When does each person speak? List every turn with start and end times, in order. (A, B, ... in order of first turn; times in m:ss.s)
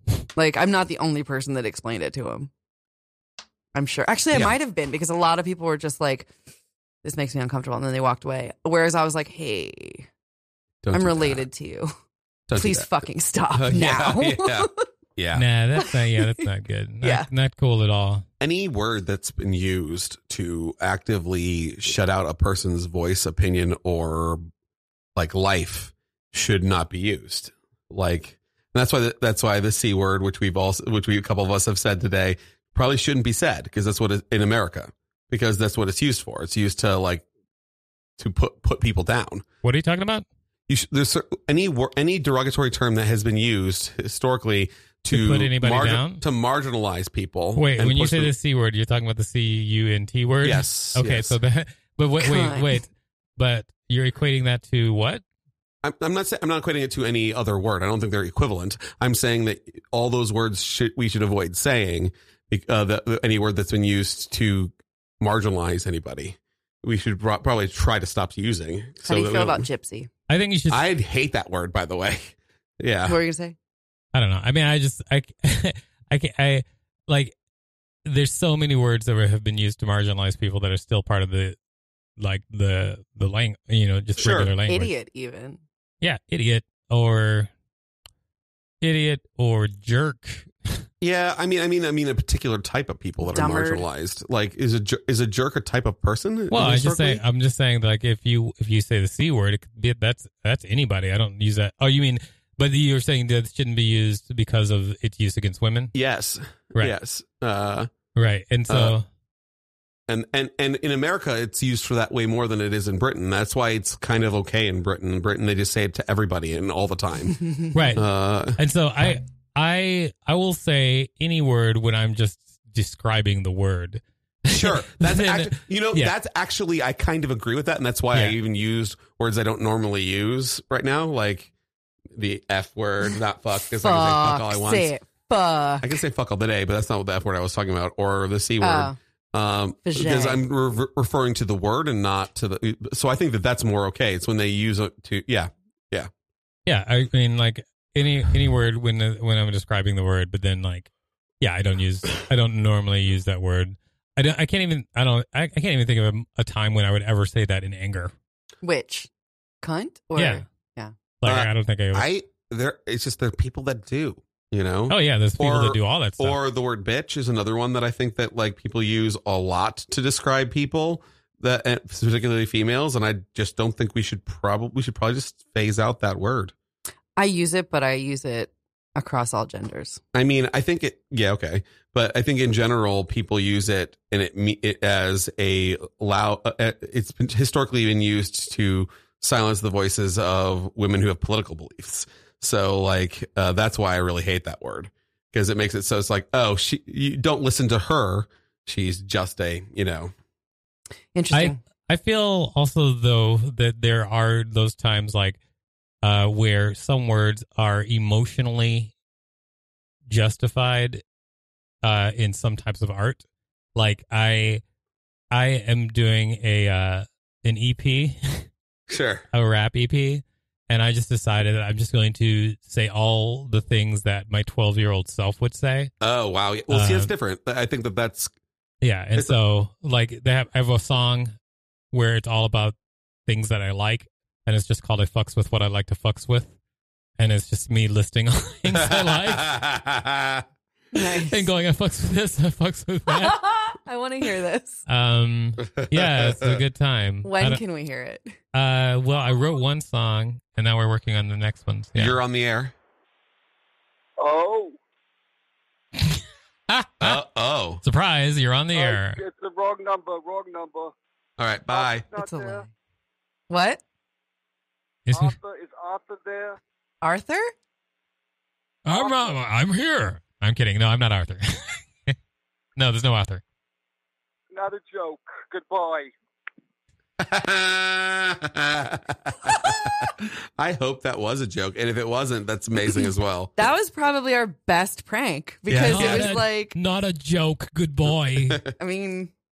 0:00.4-0:02.5 A
0:03.7-0:06.3 A
0:07.0-0:10.1 A
0:10.8-0:11.4 B
0:10.9-0:11.9 A
0:12.5-0:12.9 B
0:12.5-0:14.8 A
0:13.5-0:15.4 B
0:15.3-0:18.2 C
0:17.0-0:17.3 A
0:18.4-0:24.4 B
0:25.2-0:37.2 B
0:38.2-0:39.4 B
0:39.6-0:40.2 C
0:40.7-0:48.3 B
0:45.1-0:46.2 C
0:47.6-0:55.2 C
0:50.4-0:51.4 B
0:52.2-0:52.8 A
0:55.8-1:09.6 B
1:09.0-1:10.1 A
1:10.3-1:10.8 C
1:10.7-1:13.2 B
1:13.1-1:13.6 A
1:14.1-1:17.3 C
1:18.0-1:21.6 C
1:22.2-1:24.9 C
1:24.2-1:24.5 B
1:24.7-1:25.6 A
1:26.0-1:27.5 C
1:28.8-1:30.8 C
1:31.0-1:37.2 B
1:33.2-1:33.8 A
1:36.5-1:45.9 C
1:45.9-1:47.9 B
1:48.2-1:49.0 C
1:48.7-1:48.9 B
1:50.1-1:57.4 B
1:57.7-1:58.0 C
1:57.9-1:58.6 B
1:58.6-2:06.1 C
2:04.5-2:11.5 B
2:12.1-2:14.9 B
2:13.6-2:15.9 A
2:15.8-2:26.1 B
2:18.6-2:19.0 A
2:19.8-2:20.4 A
2:26.6-2:30.9 C
2:31.4-2:38.1 C
2:38.6-2:39.1 A
2:39.6-2:40.9 A
2:40.2-2:40.4 C
2:41.2-2:42.1 C
2:41.2-2:56.5 B
2:44.9-2:46.4 C
2:57.2-3:00.0 A
3:00.1-3:20.1 B
3:21.1-3:21.6 A
3:21.3-3:25.4 C
3:26.0-3:28.9 C
3:30.1-3:31.0 C
3:31.8-3:33.2 C
3:33.7-3:34.6 C
3:35.3-3:38.5 C
3:38.9-3:39.2 B
3:39.3-3:45.9 C
3:46.0-3:48.3 B
3:46.7-3:47.1 C
3:48.8-3:51.3 C
3:51.9-3:52.8 C
3:53.3-3:56.5 C
3:57.2-3:59.6 C
3:58.7-4:00.4 B
4:00.9-4:01.5 A
4:01.2-4:03.4 C
4:03.1-4:04.8 A
4:04.9-4:07.6 C
4:05.8-4:06.6 B
4:07.2-4:08.3 A
4:08.5-4:12.2 C
4:11.9-4:12.7 B
4:14.2-4:14.8 D
4:16.0-4:17.2 C
4:17.0-4:17.8 B
4:17.8-4:19.2 C
4:18.8-4:20.9 D
4:21.4-4:22.1 B
4:21.7-4:22.6 D
4:22.1-4:22.7 A
4:23.5-4:23.8 A
4:25.0-4:25.4 C
4:25.1-4:26.6 D
4:27.0-4:27.5 A
4:28.8-4:31.8 C
4:28.9-4:29.4 D
4:32.8-4:33.4 C
4:34.5-4:36.1 D
4:37.2-4:43.5 B
4:43.6-4:46.7 A
4:45.7-4:46.3 B
4:45.9-4:48.6 C
4:48.4-4:48.6 B
4:48.8-4:49.3 A